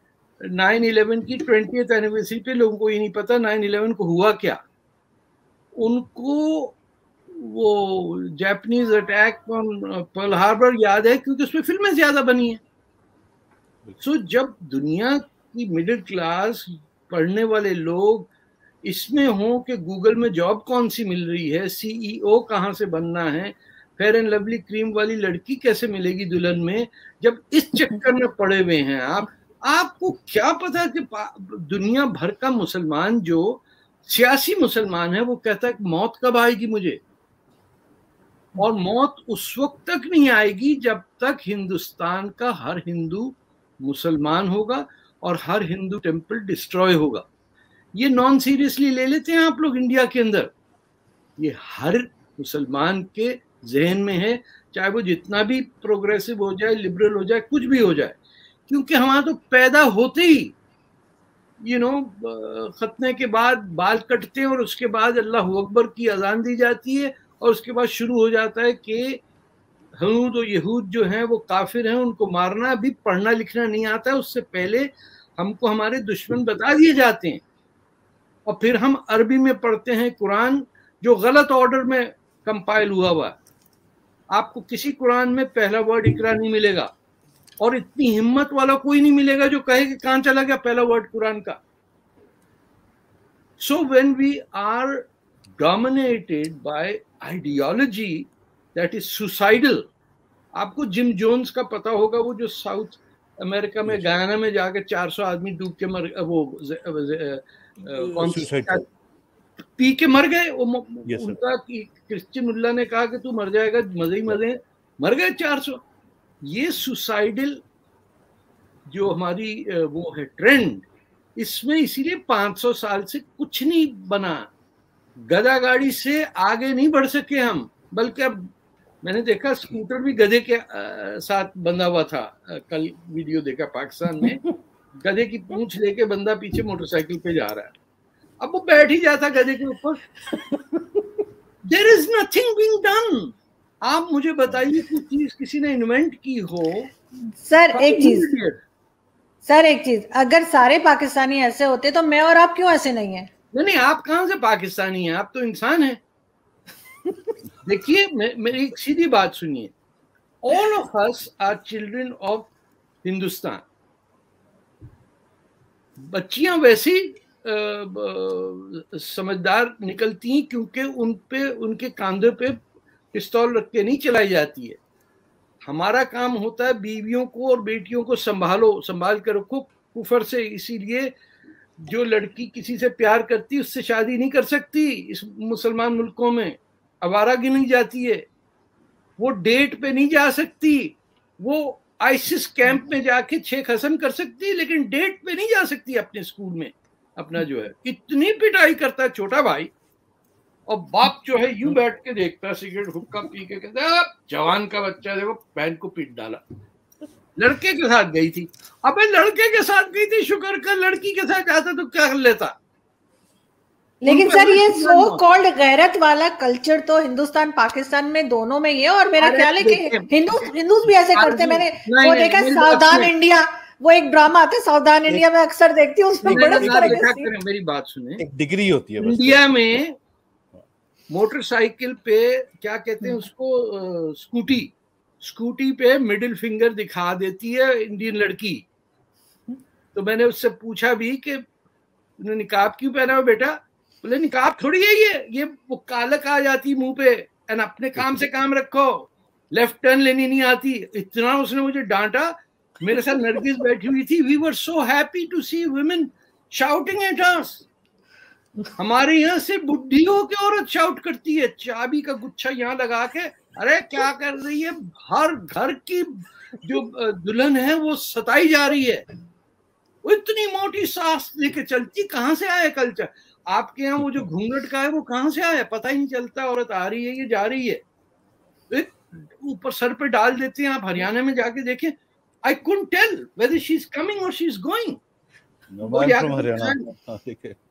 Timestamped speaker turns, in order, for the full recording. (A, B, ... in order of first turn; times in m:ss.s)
0:00.4-0:04.6 A
0:05.8-0:06.7 A
0:07.3-0:12.6 A
0:14.0-0:18.3 A
0:18.8-0:37.0 A
0:38.6-0:47.2 A
0:48.0-0:50.5 A
0:51.4-0:58.2 A
0:58.7-1:00.5 A
1:01.6-1:09.2 A
1:10.0-1:17.4 A
1:18.4-1:23.4 A
1:24.3-1:26.9 A
1:27.6-1:31.6 A
1:33.6-1:35.1 A
1:35.6-1:39.8 A
1:40.5-1:48.8 A
1:43.8-1:44.2 B
1:47.9-1:48.8 B
1:49.8-1:55.8 A
1:51.1-1:51.4 B
1:56.4-1:57.6 A
1:58.9-2:00.8 A
2:01.4-2:04.5 A
2:05.2-2:08.5 A
2:09.0-2:14.4 A
2:15.0-2:17.7 A
2:18.4-2:20.0 A
2:21.7-2:26.9 A
2:27.4-2:28.3 C
2:27.7-2:28.6 A
2:29.4-2:33.3 C
2:33.5-2:36.0 A
2:37.6-2:39.7 A
2:40.4-2:42.5 A
2:43.0-2:43.6 A
2:46.0-2:52.6 A
2:53.1-2:54.8 A
2:55.7-3:01.1 A
3:01.8-3:08.2 A
3:09.2-3:19.7 A
3:20.7-3:26.4 A
3:27.4-3:32.5 A
3:34.0-3:47.3 C
3:34.0-3:35.2 A
3:39.2-3:43.1 A
3:46.2-3:48.2 A
3:46.3-3:47.0 B
3:48.2-3:49.8 B
3:49.0-3:49.9 A
3:51.1-3:58.6 A
3:59.9-4:01.4 A
4:02.2-4:17.6 A
4:18.8-4:29.0 A
4:30.0-4:37.8 A
4:34.0-4:34.3 B
4:38.7-4:45.0 A
4:45.7-4:47.6 B
4:45.8-4:46.9 A